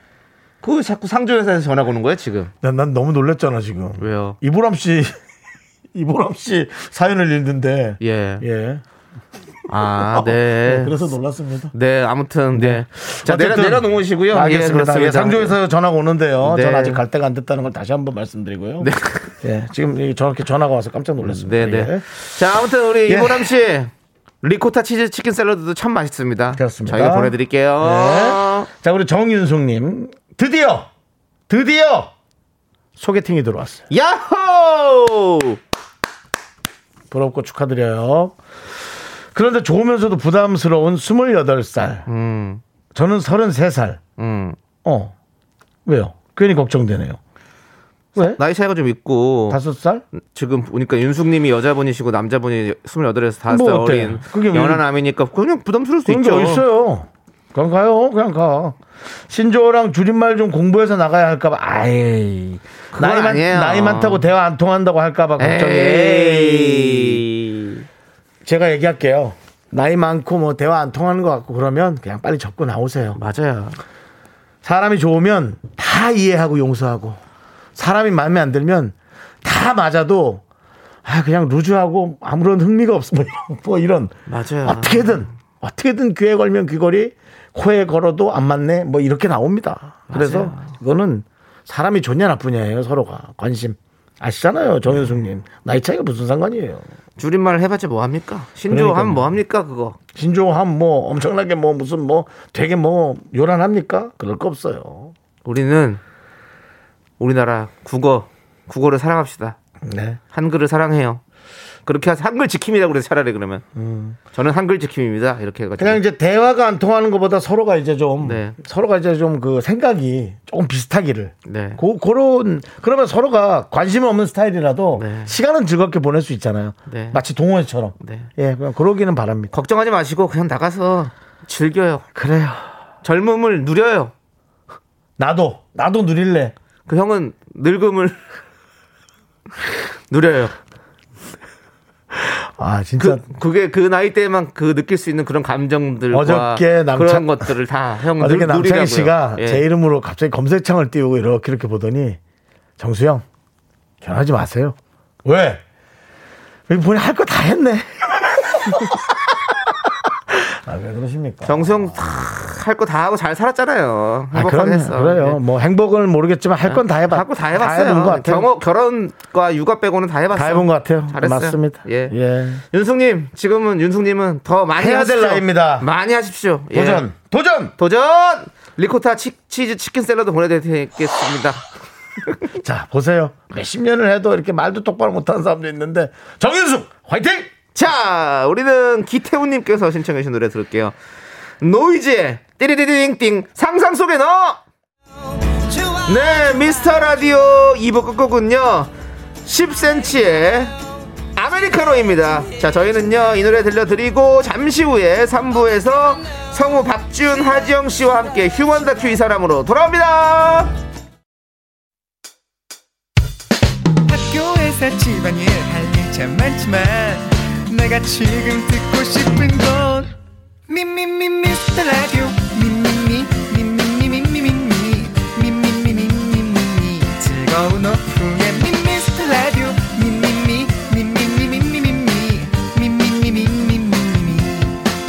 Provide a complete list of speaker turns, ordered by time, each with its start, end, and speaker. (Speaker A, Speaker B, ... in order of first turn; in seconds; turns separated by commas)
Speaker A: 0.6-2.5, Speaker B: 2.6-5.2, Speaker A: 4.0-4.4, Speaker B: 5.9-8.8, Speaker A: 8.0-8.4, Speaker A: 9.7-11.0, Speaker B: 10.0-11.7, Speaker A: 11.7-15.6, Speaker B: 12.5-18.9, Speaker A: 16.4-17.0, Speaker A: 18.8-19.3, Speaker B: 19.4-22.1, Speaker A: 21.2-23.9, Speaker B: 23.1-23.5, Speaker A: 24.4-28.7, Speaker B: 26.6-30.9, Speaker B: 31.5-32.1, Speaker B: 33.0-33.9, Speaker A: 33.9-35.6, Speaker B: 37.1-38.4, Speaker B: 39.3-42.1, Speaker A: 42.1-42.6, Speaker B: 43.0-44.0, Speaker A: 44.2-44.6, Speaker B: 44.8-45.1, Speaker B: 45.9-47.2, Speaker B: 48.2-48.4, Speaker A: 48.2-49.6, Speaker B: 49.5-50.0, Speaker A: 50.2-56.6, Speaker B: 53.5-54.8, Speaker B: 56.1-67.2, Speaker A: 62.9-64.2, Speaker A: 65.4-67.8, Speaker B: 68.5-73.2, Speaker A: 73.2-73.8, Speaker B: 74.6-77.2, Speaker B: 77.8-80.4, Speaker B: 81.0-96.9, Speaker A: 84.3-85.3, Speaker A: 90.1-90.7, Speaker A: 97.2-100.0, Speaker B: 98.7-99.4, Speaker B: 100.1-105.1, Speaker A: 105.5-106.0, Speaker A: 107.2-109.6, Speaker B: 109.8-110.2, Speaker A: 110.3-111.2, Speaker A: 111.9-113.6, Speaker B: 113.8-114.2, Speaker A: 114.3-116.0, Speaker B: 115.8-129.5, Speaker A: 118.2-118.6, Speaker A: 121.5-121.8, Speaker A: 125.0-125.3, Speaker A: 126.9-127.2, Speaker A: 128.0-128.3, Speaker A: 129.5-132.1, Speaker B: 132.2-132.7, Speaker A: 133.0-134.1, Speaker B: 135.2-136.5, Speaker A: 136.9-138.2, Speaker A: 140.1-140.5, Speaker B: 142.1-143.2, Speaker A: 143.0-149.6, Speaker B: 146.1-147.5, Speaker B: 148.2-152.2, Speaker B: 152.8-153.2, Speaker B: 154.0-155.6, Speaker B: 156.7-159.3, Speaker B: 160.3-162.0, Speaker A: 161.4-165.4, Speaker B: 164.3-168.5, Speaker A: 166.7-172.2, Speaker B: 170.3-172.6, Speaker A: 172.7-177.1, Speaker B: 174.8-175.9, Speaker B: 176.7-177.8, Speaker A: 177.8-181.6, Speaker B: 182.6-187.5, Speaker A: 187.8-190.9, Speaker A: 191.6-194.6, Speaker A: 196.0-198.9, Speaker A: 199.4-200.7, Speaker A: 201.4-210.7, Speaker C: 214.1-220.1, Speaker C: 220.7-234.8